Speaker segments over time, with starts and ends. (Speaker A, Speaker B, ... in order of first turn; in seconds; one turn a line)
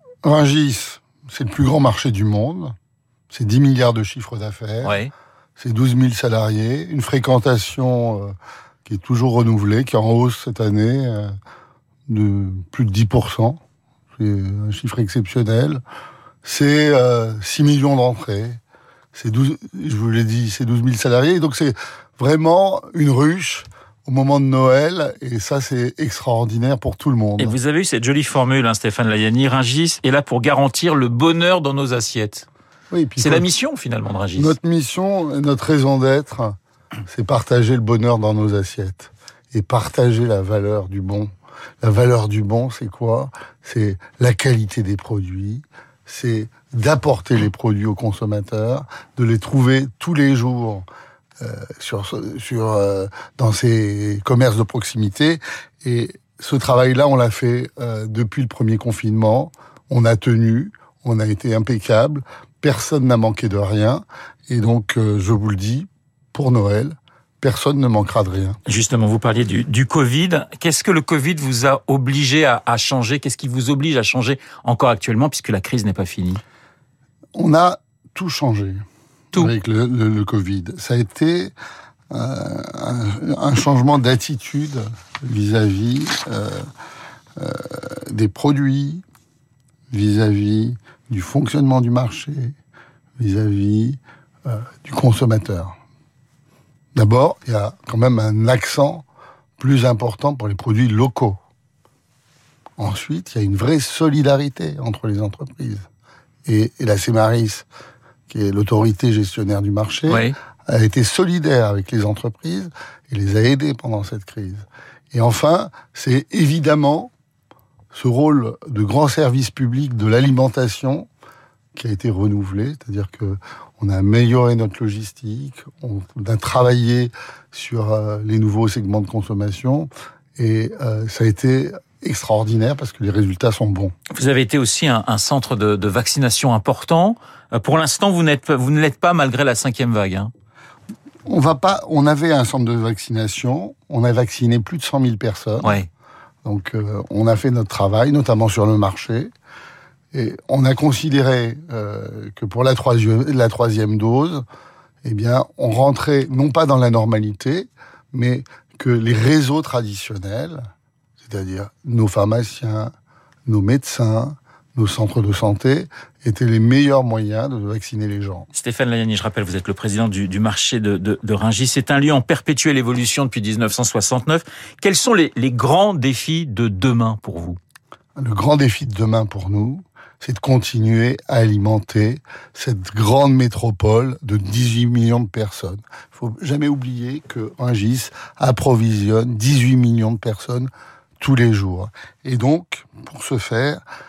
Speaker A: 0.2-2.7
Speaker A: 3.3-5.0
Speaker B: 4.8-5.1
Speaker A: 5.6-8.3
Speaker A: 8.8-11.3
Speaker A: 12.1-13.6
Speaker A: 14.2-15.8
Speaker A: 16.4-18.6
Speaker A: 19.1-27.6
Speaker B: 27.4-32.5
Speaker A: 32.9-33.5
Speaker B: 33.2-34.6
Speaker A: 34.4-36.5
Speaker A: 37.1-41.3
Speaker A: 41.8-50.9
Speaker A: 51.4-68.6
Speaker B: 68.7-76.4
Speaker A: 77.3-81.5
Speaker A: 82.1-86.7
Speaker A: 87.4-89.0
Speaker A: 89.9-92.5
Speaker A: 93.2-95.7
Speaker A: 97.0-99.0
Speaker A: 99.6-101.4
Speaker A: 102.8-105.8
Speaker A: 106.5-107.7
Speaker A: 108.3-117.1
Speaker B: 110.1-110.3
Speaker A: 117.9-121.1
Speaker A: 121.8-133.9
Speaker B: 134.1-140.3
Speaker A: 141.3-145.8
Speaker B: 145.6-145.9
Speaker A: 146.4-149.3
Speaker A: 150.1-154.4
Speaker A: 155.0-160.7
Speaker A: 161.2-162.9
Speaker A: 163.5-168.5
Speaker B: 168.5-177.6
Speaker A: 178.2-193.8